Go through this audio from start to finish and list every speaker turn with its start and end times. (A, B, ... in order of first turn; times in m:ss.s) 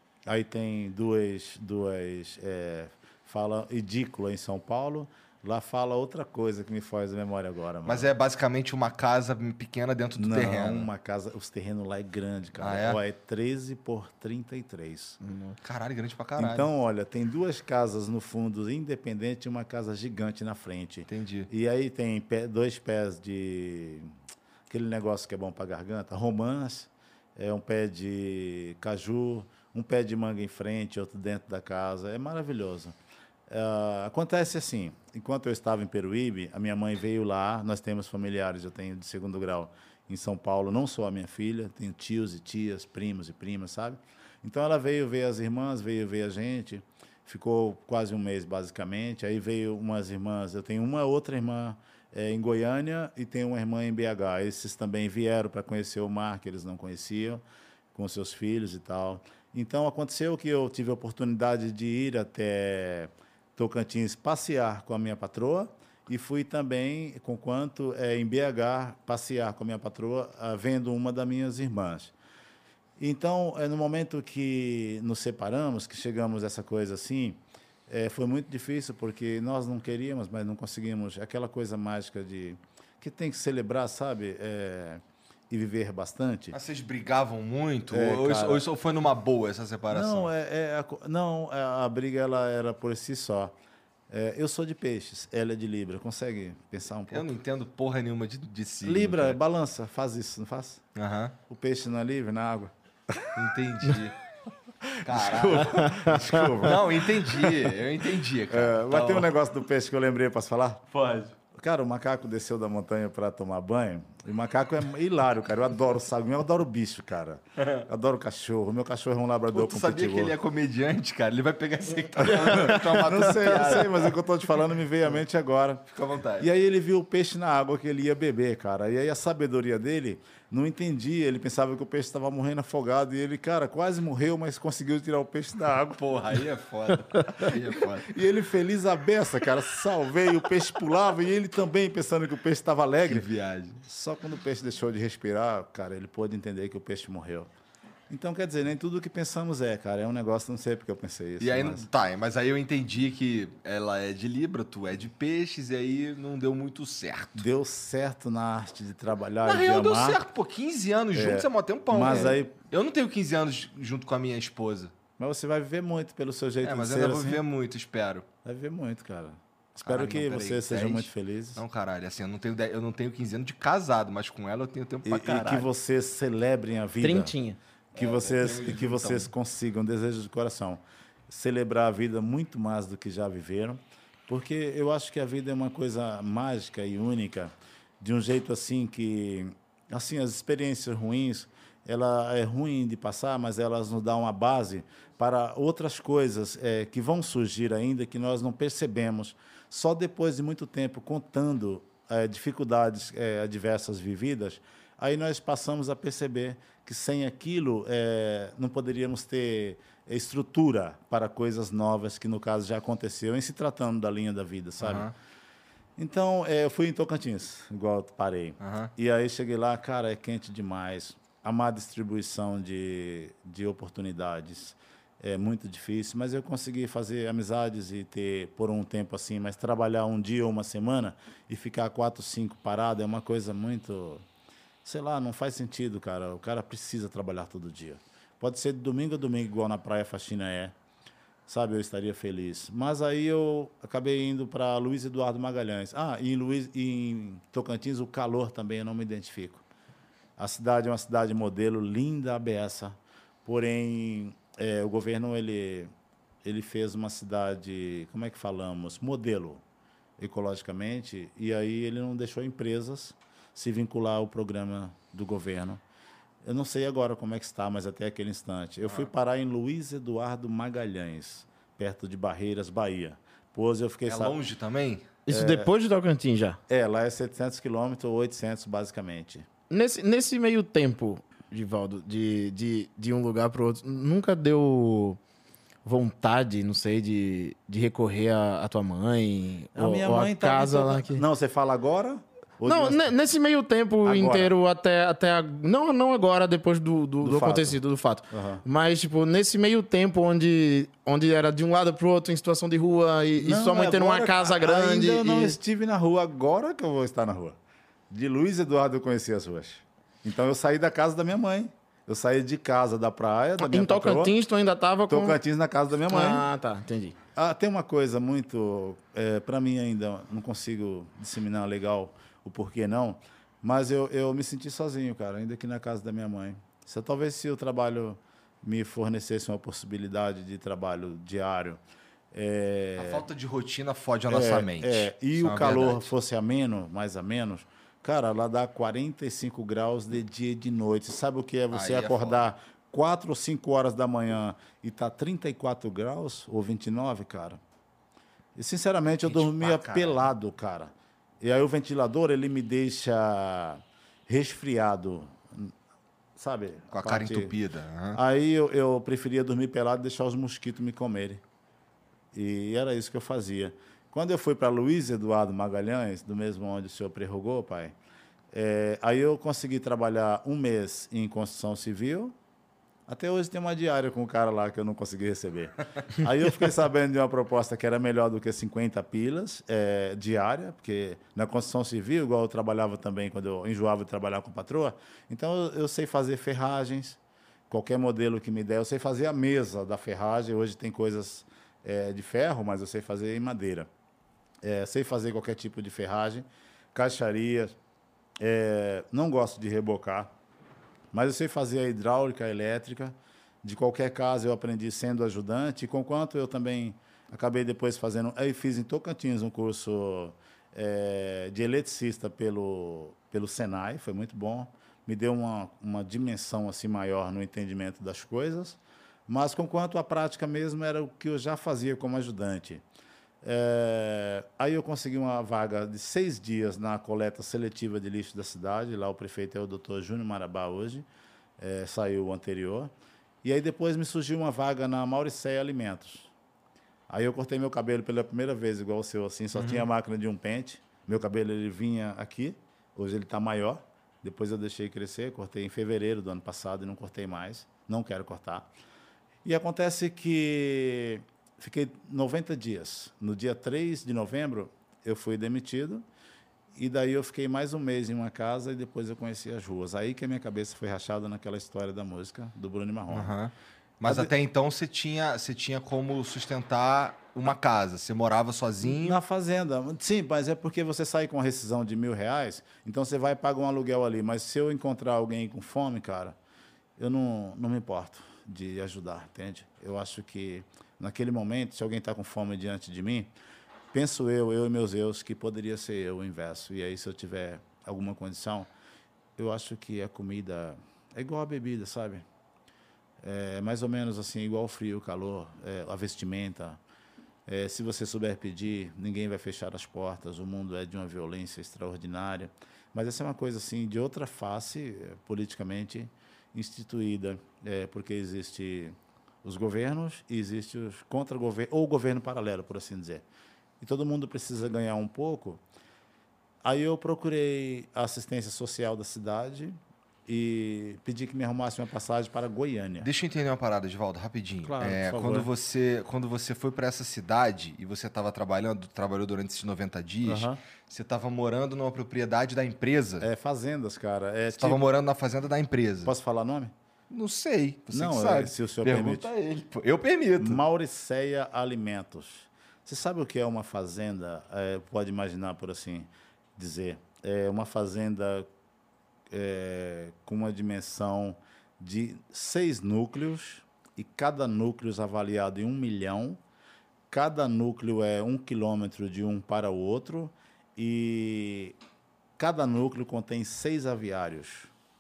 0:00.3-0:08.1 A
0:07.9-0:10.9 B
0:10.2-0:15.2 A
0:12.6-0:13.0 B
0:15.2-0:15.6 C
0:15.6-0:16.7 B
0:16.4-0:24.1 A
0:21.1-0:21.5 B
0:24.7-0:33.0 A
0:33.5-0:57.4 A
0:57.9-1:12.1 A
1:13.0-1:26.6 A
1:26.5-1:30.3 B
1:27.9-1:28.6 A
1:29.9-1:33.5 A
1:34.1-1:37.3 A
1:37.1-1:39.4 B
1:38.8-1:40.8 A
1:41.0-1:41.4 B
1:41.5-1:43.3 A
1:43.4-1:44.2 B
1:44.9-1:47.7 A
1:45.0-1:49.3 B
1:45.7-1:46.2 C
1:48.5-1:50.9 A
1:50.9-1:51.3 B
1:51.5-2:00.3 A
1:59.5-2:04.2 B
2:02.2-2:05.9 A
2:05.9-2:06.5 B
2:06.4-2:16.0 A
2:15.9-2:18.2 B
2:17.4-2:23.3 A
2:23.1-2:23.8 B
2:23.8-2:27.5 A
2:28.1-2:31.8 A
2:31.4-2:37.4 B
2:37.4-2:40.2 A
2:39.4-2:44.9 B
2:41.1-2:42.5 A
2:45.2-2:47.4 A
2:46.6-2:48.3 B
2:48.4-2:51.6 A
2:49.8-2:55.7 B
2:55.0-2:57.3 A
2:57.0-2:57.6 C
2:57.9-3:35.1 A
2:58.0-2:59.3 B
3:34.8-3:35.1 B
3:36.0-3:54.2 A
3:38.6-3:38.9 B
3:54.8-4:00.7 A
4:01.5-4:09.6 A
4:10.4-4:15.9 A
4:16.4-4:19.6 A
4:20.2-4:25.8 A
4:26.4-4:34.4 A
4:34.1-4:35.1 B
4:35.3-4:36.6 C
4:35.3-4:35.7 A
4:36.7-4:39.5 A
4:39.7-4:45.2 C
4:45.8-4:51.2 C
4:49.8-4:53.1 A
4:52.6-5:05.6 C
4:54.0-4:54.6 A
4:57.2-4:58.6 A
5:03.4-5:07.6 A
5:08.1-5:14.3 A
5:13.6-5:15.4 C
5:15.1-5:16.4 A
5:16.1-5:17.2 C
5:17.4-5:31.8 A
5:32.3-5:33.3 A
5:33.0-5:36.1 B
5:34.3-5:47.6 A
5:41.7-5:42.5 B
5:48.6-5:55.7 A
5:49.2-5:50.3 B
5:56.4-5:57.5 A
5:56.9-5:58.2 B
5:58.1-6:01.4 A
6:02.3-6:08.0 A
6:08.5-6:12.4 A
6:13.1-6:27.2 A
6:27.7-6:33.9 A
6:34.6-6:37.8 A
6:38.4-6:40.3 A
6:41.1-7:02.8 A
7:03.4-7:11.1 A
7:11.6-7:12.9 A
7:13.4-7:16.3 A
7:17.1-7:28.7 A
7:19.6-7:19.8 B
7:29.4-7:36.0 A
7:36.8-7:43.3 A
7:43.1-7:49.2 B
7:44.0-7:44.3 A
7:48.8-7:56.4 A
7:57.0-8:03.3 A
8:03.9-8:08.7 A
8:09.4-8:12.2 A
8:13.2-8:16.8 A
8:17.5-8:33.2 A
8:33.8-8:35.6 A
8:36.6-8:43.1 A
8:43.0-8:53.3 B
8:44.6-8:45.5 A
8:50.2-8:50.6 A
8:53.2-8:54.8 A
8:54.5-8:56.1 B
8:56.0-8:56.7 A
8:57.1-9:00.6 B
8:57.9-8:59.3 A
9:00.4-9:08.5 A
9:09.3-9:16.4 A
9:17.1-9:21.8 A
9:22.4-9:24.7 A